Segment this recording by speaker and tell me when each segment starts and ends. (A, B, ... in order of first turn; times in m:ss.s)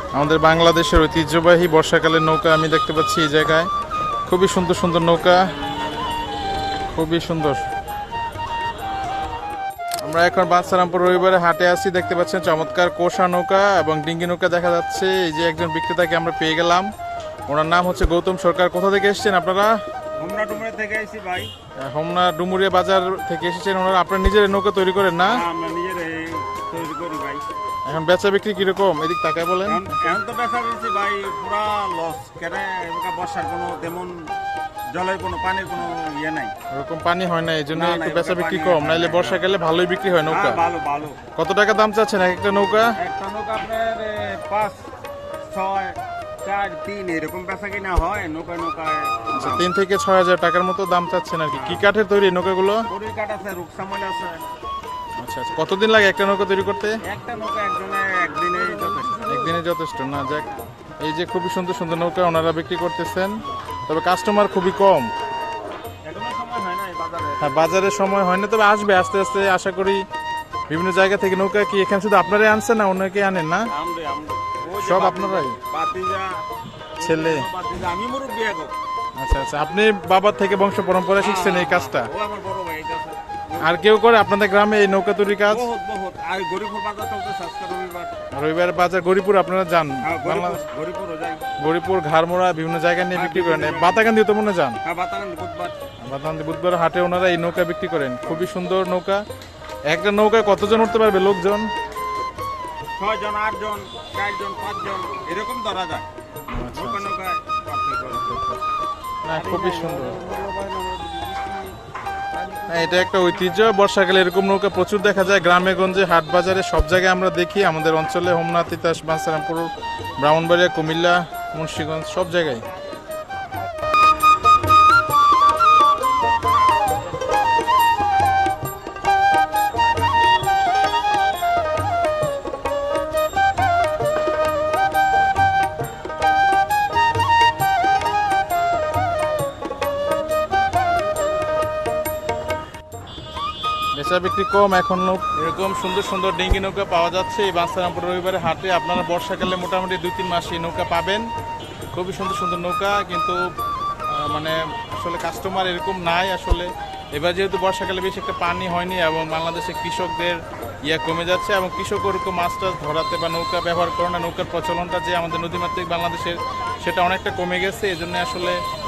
0:00.1-0:03.7 A
0:04.3-0:05.4 A
0:06.9-0:07.6 A
0:10.0-0:16.9 A
0:17.5-0:19.7 A
0:20.2-0:21.5 B
0:21.8-0:25.4 A
0:25.2-0:27.4 B
0:27.9-0:29.8 A
0:29.6-0:34.3 B
0:34.9-0:36.5 B
0:36.7-0:40.6 A
0:37.7-0:39.4 B
0:40.3-0:41.2 B
0:41.4-0:43.0 A
0:43.0-0:44.8 B
0:45.5-0:49.7 B
0:49.3-0:52.9 A
0:51.5-0:51.9 B
0:52.9-0:54.4 B
0:55.2-0:57.0 A
0:57.0-0:59.3 B
0:59.2-1:00.5 A
1:01.0-1:05.1 A
1:06.0-1:07.7 B
1:07.4-1:10.0 A
1:10.7-1:13.7 A
1:13.7-1:16.4 B
1:14.8-1:15.6 A
1:17.0-1:18.7 B
1:17.0-1:17.4 A
1:19.2-1:22.1 A
1:21.2-1:23.8 B
1:23.6-1:25.6 A
1:25.4-1:28.1 B
1:28.3-1:30.6 A
1:30.0-1:31.4 B
1:31.6-1:34.8 A
1:33.1-1:34.1 B
1:34.8-1:35.7 B
1:36.0-1:39.2 A
1:39.9-1:41.7 A
1:43.0-1:46.0 B
1:46.5-1:47.1 A
1:46.7-1:48.4 B
1:48.3-1:48.6 A
1:49.2-1:50.2 A
1:49.3-1:51.7 B
1:52.4-1:53.2 B
1:52.7-1:59.7 A
2:00.2-2:02.6 A
2:23.9-2:31.2 A
2:31.9-2:33.4 A
2:34.1-2:48.6 A